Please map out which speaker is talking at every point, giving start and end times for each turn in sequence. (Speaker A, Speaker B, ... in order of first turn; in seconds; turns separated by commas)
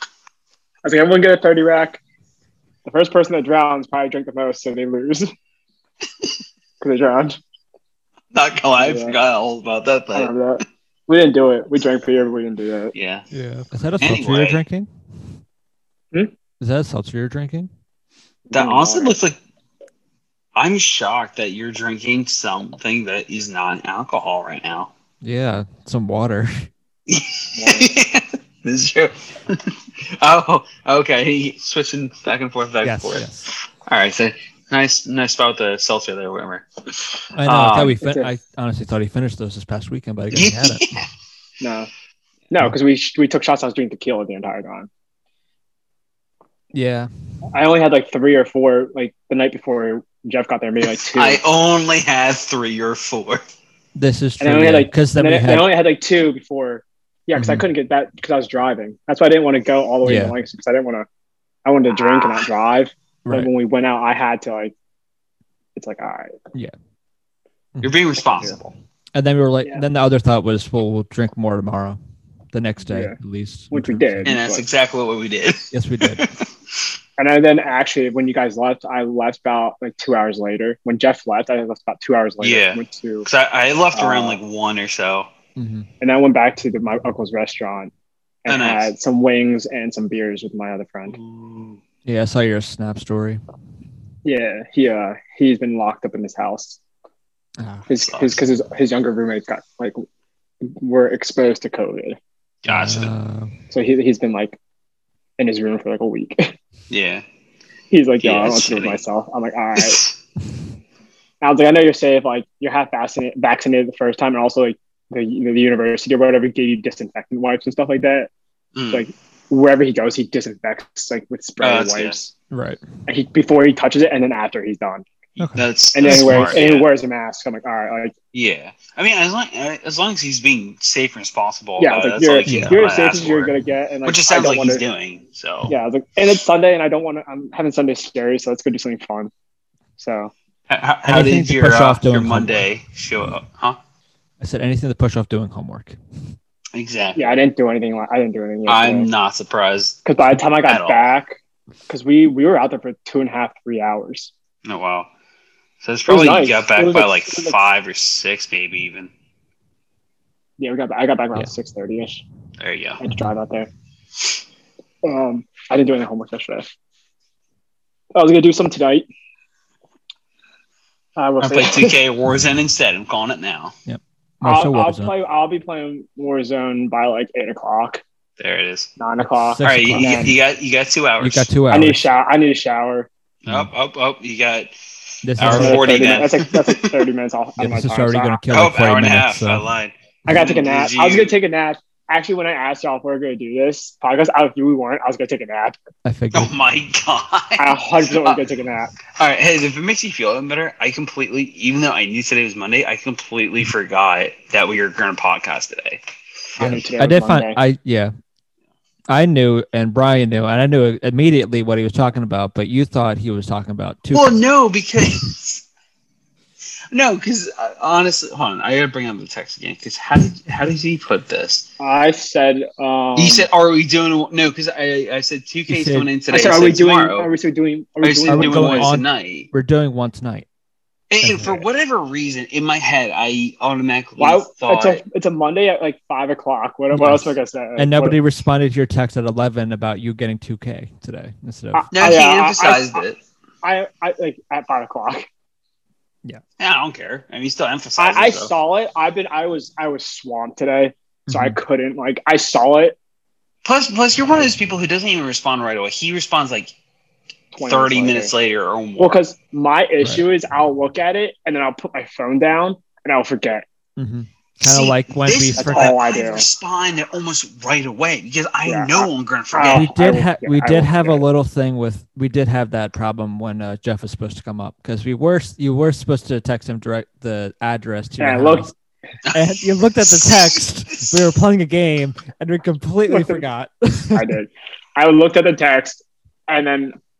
Speaker A: 0.8-2.0, Speaker A: 2.9-5.3, Speaker A: 6.8-7.4, Speaker B: 8.3-10.3, Speaker A: 8.8-9.2, Speaker A: 10.1-12.9, Speaker B: 12.9-13.3, Speaker C: 13.3-14.9, Speaker B: 14.0-14.6, Speaker C: 16.6-17.7, Speaker A: 18.5-19.1, Speaker B: 18.5-19.4, Speaker B: 20.6-24.9, Speaker C: 25.2-26.7, Speaker B: 27.1-38.0, Speaker A: 27.6-28.0, Speaker C: 32.8-33.5, Speaker C: 37.4-40.9, Speaker A: 38.0-38.3, Speaker B: 40.3-41.1, Speaker A: 41.6-41.9, Speaker A: 42.5-44.9, Speaker C: 46.7-47.1, Speaker A: 47.5-51.4, Speaker B: 50.8-53.4, Speaker C: 54.0-55.7, Speaker A: 54.4-61.1, Speaker C: 57.4-57.7, Speaker C: 60.0-60.4, Speaker A: 61.6-64.7, Speaker B: 61.9-62.5, Speaker A: 65.8-66.3, Speaker B: 67.8-68.7, Speaker C: 69.1-72.0, Speaker C: 72.5-74.3, Speaker A: 72.9-73.2, Speaker A: 73.7-74.7, Speaker B: 74.3-76.5, Speaker C: 75.7-76.3, Speaker A: 77.2-83.3, Speaker B: 82.4-85.3, Speaker A: 83.9-84.4, Speaker C: 85.6-85.9, Speaker A: 86.0-87.9, Speaker A: 88.5-91.2, Speaker B: 88.5-88.9, Speaker B: 91.1-91.8, Speaker C: 92.0-93.4, Speaker A: 94.2-96.8, Speaker C: 97.6-97.9, Speaker A: 97.9-100.0, Speaker B: 98.0-98.4, Speaker A: 100.6-102.2, Speaker B: 102.6-103.1, Speaker C: 102.7-103.5, Speaker A: 103.7-104.6, Speaker A: 105.4-106.5, Speaker B: 106.9-107.2, Speaker A: 107.9-110.0, Speaker B: 108.2-109.0, Speaker B: 109.8-110.2, Speaker A: 111.4-118.3, Speaker B: 118.8-119.0, Speaker A: 118.9-122.3, Speaker B: 121.6-122.2, Speaker C: 122.5-122.8, Speaker A: 123.1-125.0, Speaker C: 125.4-126.6, Speaker B: 125.5-126.9, Speaker A: 125.9-128.1, Speaker B: 128.3-133.5, Speaker A: 131.8-134.8, Speaker C: 132.5-132.8, Speaker B: 134.1-135.7, Speaker A: 135.7-139.3, Speaker A: 140.0-140.3, Speaker B: 140.7-143.8, Speaker C: 141.1-142.7, Speaker C: 144.4-146.0, Speaker B: 146.7-147.4, Speaker A: 147.2-149.1, Speaker B: 148.7-150.0, Speaker A: 150.1-151.4, Speaker B: 150.7-151.1, Speaker A: 151.9-154.3, Speaker B: 154.7-155.1, Speaker B: 155.8-159.1, Speaker A: 156.1-157.6, Speaker A: 160.6-162.2, Speaker B: 162.6-163.0, Speaker A: 163.0-163.7, Speaker A: 165.0-166.7, Speaker A: 168.2-169.1, Speaker A: 171.2-172.0, Speaker B: 171.4-173.8, Speaker C: 173.9-175.1, Speaker A: 174.4-178.0, Speaker B: 178.4-178.9, Speaker A: 179.0-180.4, Speaker C: 179.2-180.3, Speaker B: 179.6-181.5, Speaker C: 181.2-182.0, Speaker A: 181.7-183.1, Speaker B: 183.4-184.7, Speaker C: 185.2-185.9, Speaker B: 185.4-187.0, Speaker A: 185.5-188.4, Speaker C: 187.6-189.7, Speaker B: 188.5-191.4, Speaker A: 190.3-195.8, Speaker C: 196.1-196.5, Speaker B: 196.3-198.4, Speaker A: 197.6-198.9, Speaker B: 199.2-206.0, Speaker A: 206.6-207.6, Speaker C: 206.6-208.1, Speaker C: 209.1-214.4, Speaker B: 214.1-215.7, Speaker B: 216.9-221.7, Speaker A: 221.8-223.5, Speaker B: 223.2-227.3, Speaker C: 225.7-226.1, Speaker A: 226.3-228.9, Speaker B: 228.0-229.5, Speaker C: 228.3-230.5, Speaker B: 231.1-235.0, Speaker C: 231.2-231.6, Speaker A: 234.2-238.2, Speaker C: 236.9-241.9, Speaker A: 241.7-243.0, Speaker B: 241.9-243.2, Speaker A: 243.6-245.3, Speaker B: 246.6-248.5, Speaker A: 248.0-253.0, Speaker C: 251.3-251.6, Speaker B: 253.6-256.7, Speaker A: 257.5-258.3, Speaker B: 257.6-259.2, Speaker A: 259.0-263.6, Speaker C: 264.0-266.0, Speaker B: 264.6-269.9, Speaker A: 265.6-266.5, Speaker A: 268.7-271.2, Speaker C: 269.7-278.7, Speaker A: 278.2-278.7, Speaker B: 279.3-281.2, Speaker C: 279.3-284.3, Speaker A: 283.1-283.4, Speaker A: 284.1-286.9